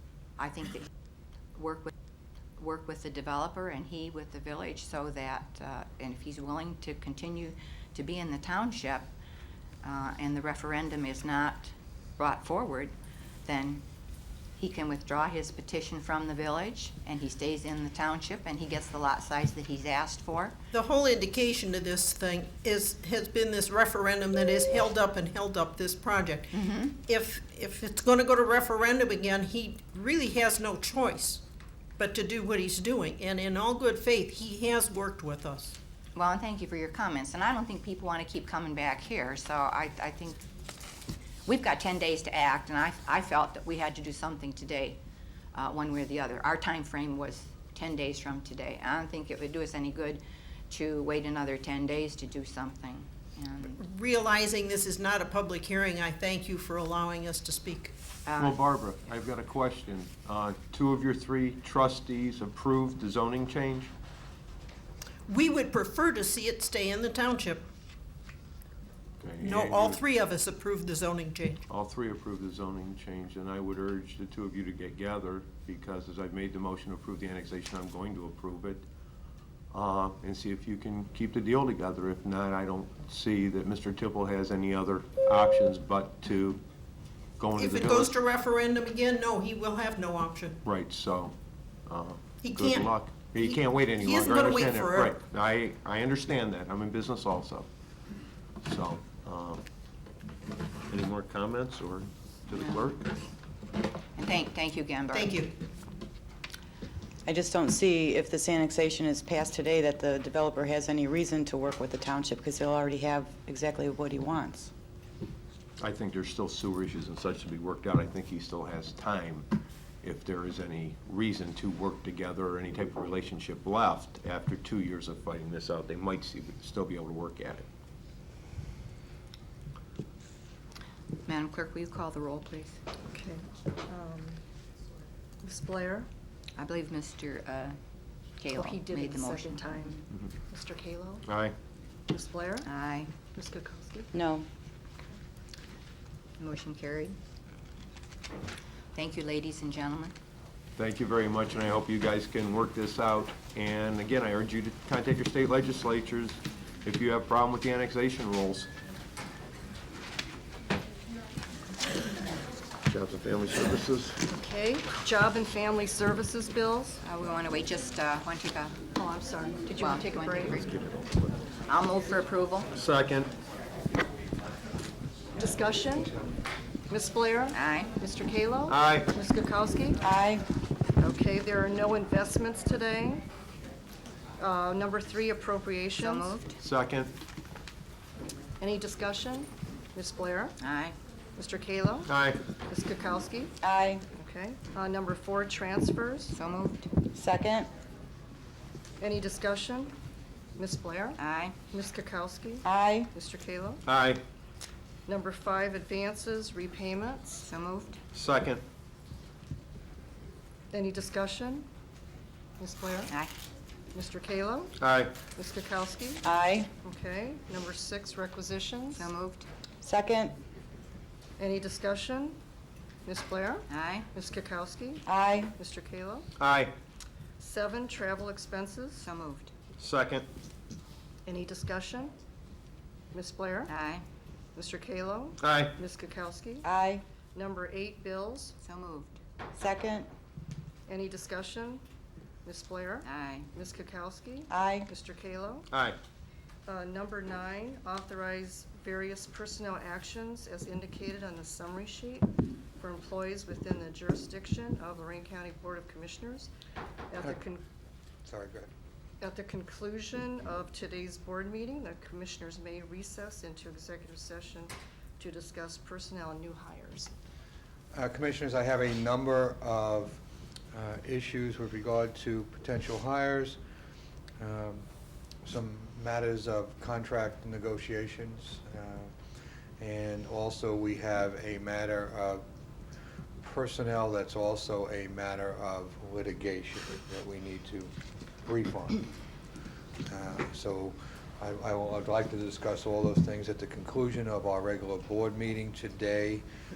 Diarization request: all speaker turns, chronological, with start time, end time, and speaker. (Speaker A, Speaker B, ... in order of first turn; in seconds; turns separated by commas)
Speaker A: 0.4-0.9, Speaker A: 1.5-1.9, Speaker A: 2.6-9.1, Speaker A: 9.8-12.9, Speaker A: 13.4-13.8, Speaker A: 14.6-20.5, Speaker B: 20.7-31.4, Speaker A: 26.5-26.9, Speaker B: 32.0-35.7, Speaker A: 36.1-40.4, Speaker A: 41.5-45.0, Speaker A: 45.5-53.8, Speaker B: 53.8-57.9, Speaker A: 58.2-58.6, Speaker C: 58.4-63.9, Speaker B: 65.3-67.6, Speaker C: 69.2-70.0, Speaker B: 69.4-71.6, Speaker C: 71.7-78.8, Speaker C: 79.7-86.6, Speaker C: 87.4-88.1, Speaker B: 87.5-90.6, Speaker C: 90.6-91.3, Speaker C: 91.9-97.7, Speaker B: 92.4-95.2, Speaker C: 98.6-99.6, Speaker C: 100.9-103.1, Speaker A: 104.2-105.4, Speaker B: 105.1-105.5, Speaker D: 107.2-114.7, Speaker C: 115.8-119.5, Speaker C: 120.0-127.6, Speaker A: 131.2-132.8, Speaker E: 133.1-134.4, Speaker E: 135.4-136.1, Speaker A: 136.6-137.8, Speaker A: 138.4-140.0, Speaker E: 138.5-141.2, Speaker C: 141.2-141.5, Speaker E: 142.1-142.7, Speaker A: 142.6-143.1, Speaker E: 143.3-144.1, Speaker D: 144.1-144.5, Speaker A: 146.4-147.2, Speaker A: 148.9-150.1, Speaker C: 150.8-158.7, Speaker C: 162.9-164.2, Speaker E: 164.3-167.0, Speaker A: 167.0-168.8, Speaker E: 168.9-170.6, Speaker A: 169.7-170.7, Speaker C: 170.5-171.3, Speaker A: 171.7-172.7, Speaker C: 172.7-173.3, Speaker E: 175.4-176.2, Speaker E: 176.9-180.1, Speaker A: 177.5-177.9, Speaker C: 178.7-179.1, Speaker D: 180.0-180.5, Speaker E: 181.0-183.2, Speaker E: 184.4-186.3, Speaker A: 186.0-186.6, Speaker C: 186.6-187.1, Speaker E: 188.6-190.6, Speaker A: 190.6-190.9, Speaker E: 191.3-192.1, Speaker C: 192.1-192.4, Speaker E: 192.7-193.5, Speaker D: 193.6-194.1, Speaker E: 194.1-196.3, Speaker A: 196.3-196.9, Speaker D: 197.1-197.7, Speaker E: 199.0-199.9, Speaker E: 200.6-201.2, Speaker A: 201.2-201.6, Speaker E: 201.7-203.8, Speaker D: 202.6-203.1, Speaker C: 203.8-204.2, Speaker E: 205.1-207.4, Speaker A: 207.4-208.0, Speaker C: 208.1-208.6, Speaker E: 210.7-211.7, Speaker E: 212.6-213.1, Speaker E: 213.9-214.7, Speaker C: 214.8-215.2, Speaker E: 215.3-216.2, Speaker D: 216.2-216.7, Speaker E: 216.8-219.0, Speaker A: 218.9-219.5, Speaker D: 219.8-220.4, Speaker E: 221.4-222.4, Speaker E: 223.1-225.0, Speaker A: 223.7-224.1, Speaker D: 225.1-225.5, Speaker E: 225.6-226.3, Speaker C: 226.4-226.7, Speaker E: 227.4-229.0, Speaker A: 229.0-229.5, Speaker C: 229.8-230.2, Speaker E: 231.2-232.1, Speaker E: 233.1-233.7, Speaker A: 233.7-234.0, Speaker E: 234.5-236.7, Speaker C: 235.4-235.8, Speaker D: 236.6-237.1, Speaker E: 237.3-238.5, Speaker A: 238.6-239.2, Speaker D: 239.5-240.1, Speaker E: 240.9-241.8, Speaker E: 242.4-245.7, Speaker A: 243.0-243.5, Speaker D: 244.5-244.9, Speaker C: 245.7-246.0, Speaker E: 246.7-256.5, Speaker E: 257.1-257.6, Speaker F: 258.3-258.7, Speaker E: 259.2-267.1, Speaker F: 267.9-270.2, Speaker F: 270.7-273.6, Speaker F: 274.4-274.8, Speaker F: 275.4-279.1, Speaker F: 279.8-282.4, Speaker F: 283.4-287.9, Speaker F: 288.4-289.0, Speaker F: 290.1-296.4